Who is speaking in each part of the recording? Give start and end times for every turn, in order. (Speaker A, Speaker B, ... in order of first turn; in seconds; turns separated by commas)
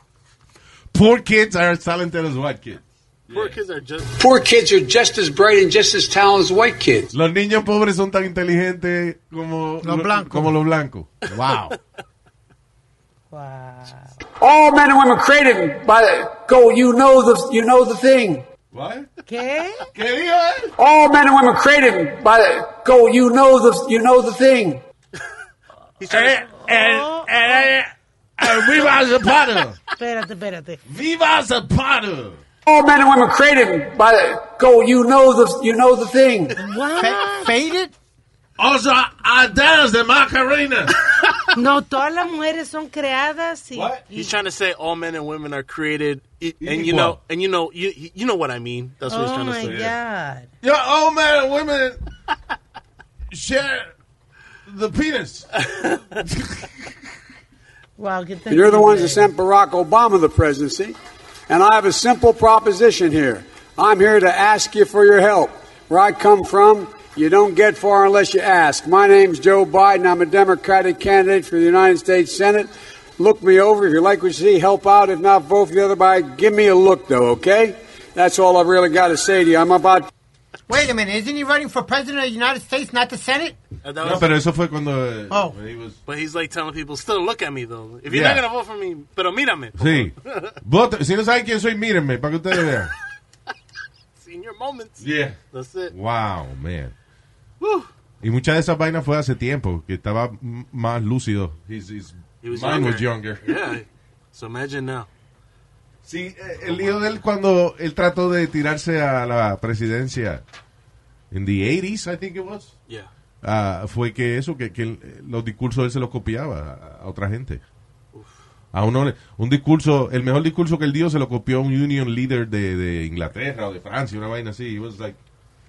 Speaker A: 0.9-3.5, Speaker B: 3.3-4.1, Speaker C: 4.2-7.1, Speaker A: 7.1-11.8, Speaker D: 9.8-10.6, Speaker E: 13.3-14.1, Speaker C: 14.4-18.4, Speaker A: 18.7-19.1, Speaker E: 19.3-19.9, Speaker A: 19.9-20.7, Speaker C: 20.8-24.8, Speaker B: 26.0-26.5, Speaker A: 26.1-29.8, Speaker E: 26.5-27.3, Speaker E: 30.0-30.8, Speaker A: 30.9-32.4, Speaker C: 32.7-36.6, Speaker E: 36.6-37.5, Speaker D: 37.0-37.9, Speaker A: 38.6-40.9, Speaker E: 41.5-44.4, Speaker A: 43.7-44.0, Speaker B: 44.1-49.9, Speaker A: 46.6-47.2, Speaker E: 49.1-50.5, Speaker A: 49.6-49.9, Speaker A: 50.6-52.0, Speaker A: 53.3-53.9, Speaker A: 54.7-55.6, Speaker A: 56.2-56.7, Speaker E: 58.0-59.3, Speaker C: 58.5-61.0, Speaker C: 61.5-80.1, Speaker D: 80.7-83.6, Speaker B: 83.8-84.4, Speaker A: 84.0-86.0, Speaker D: 85.3-85.6, Speaker B: 86.1-90.5, Speaker A: 88.1-88.4, Speaker A: 89.8-92.9, Speaker B: 94.2-95.9, Speaker A: 95.0-95.4, Speaker A: 95.9-96.9, Speaker B: 97.6-97.9, Speaker A: 98.2-103.6, Speaker B: 102.4-105.1, Speaker A: 106.0-110.4, Speaker A: 111.3-112.7, Speaker A: 113.4-117.6, Speaker A: 118.7-125.2